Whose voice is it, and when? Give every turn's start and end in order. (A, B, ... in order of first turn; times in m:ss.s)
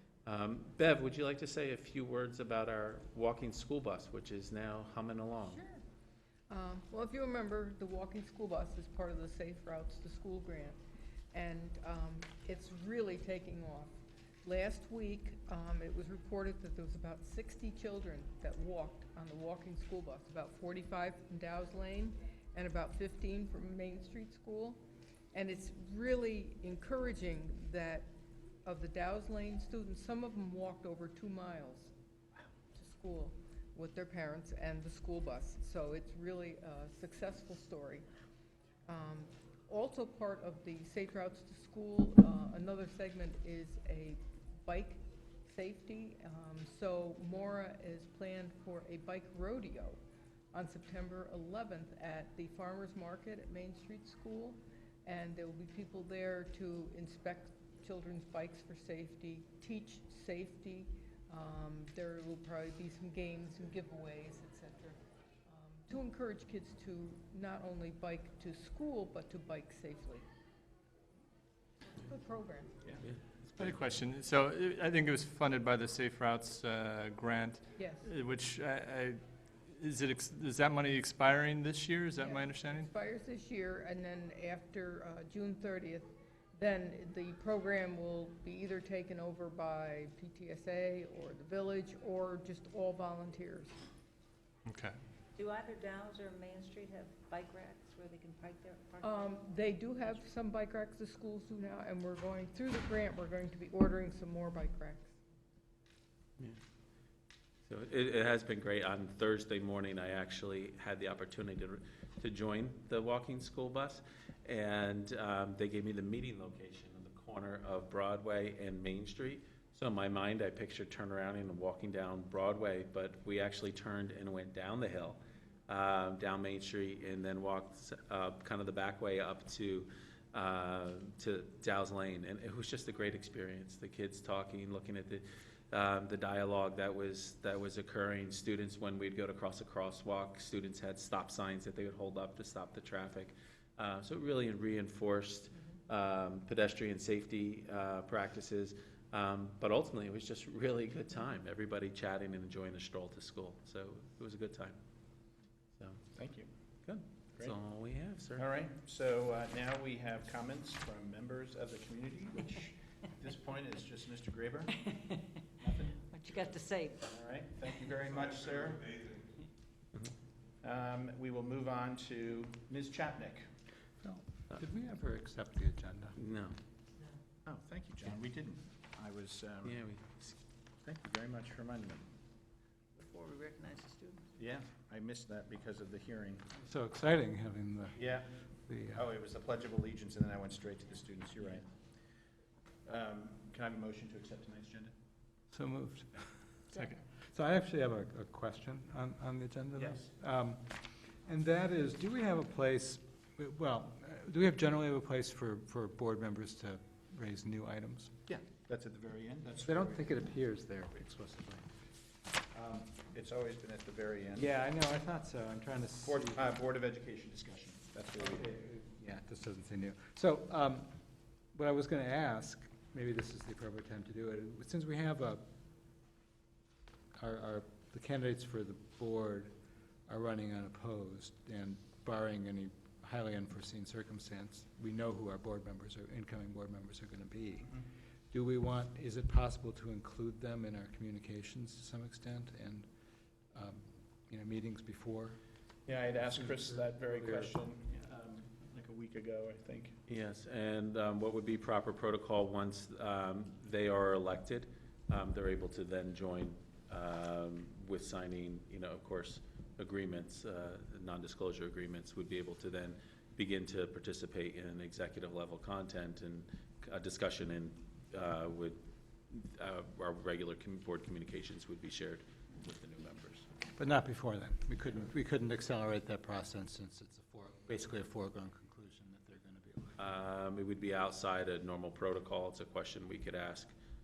0:00.3-0:05.6 A
0:05.4-0:05.8 B
0:06.5-0:10.8 B
0:11.3-0:28.1 B
0:28.6-0:31.9 B
0:32.8-0:38.1 B
0:38.9-0:50.0 B
0:50.5-1:05.0 B
1:05.5-1:10.2 B
1:12.0-1:12.8 B
1:13.0-1:13.7 A
1:13.6-1:22.9 C
1:17.8-1:18.1 B
1:22.2-1:33.8 B
1:34.7-1:35.0 C
1:35.4-1:40.2 D
1:39.0-1:45.2 B
1:47.7-2:34.8 A
2:35.8-2:36.0 A
2:36.1-2:36.5 E
2:36.8-2:38.4 A
2:38.4-2:49.0 E
2:46.1-2:47.0 D
2:50.6-2:53.5 E
2:54.0-2:56.2 F
2:56.2-2:56.6 A
2:57.4-2:59.8 E
2:59.6-3:00.4 A
3:00.8-3:02.0 E
3:03.0-3:04.3 D
3:04.4-3:06.5 E
3:06.6-3:08.1 F
3:08.0-3:08.3 E
3:08.7-3:09.0 F
3:08.9-3:11.7 E
3:12.8-3:14.9 E
3:15.5-3:16.3 F
3:17.3-3:28.1 F
3:19.8-3:20.1 E
3:28.3-3:30.1 E
3:29.6-3:31.7 F
3:32.5-3:34.5 E
3:34.4-3:36.5 F
3:36.0-3:38.5 E
3:38.2-3:40.9 F
3:41.5-3:45.4 F
3:47.2-3:49.5 F
3:50.1-4:02.9 F
4:03.5-4:05.4 F
4:05.9-4:10.0 E
4:06.3-4:07.5 F
4:10.1-4:33.5 A
4:33.8-4:40.0 F
4:40.0-4:43.7 A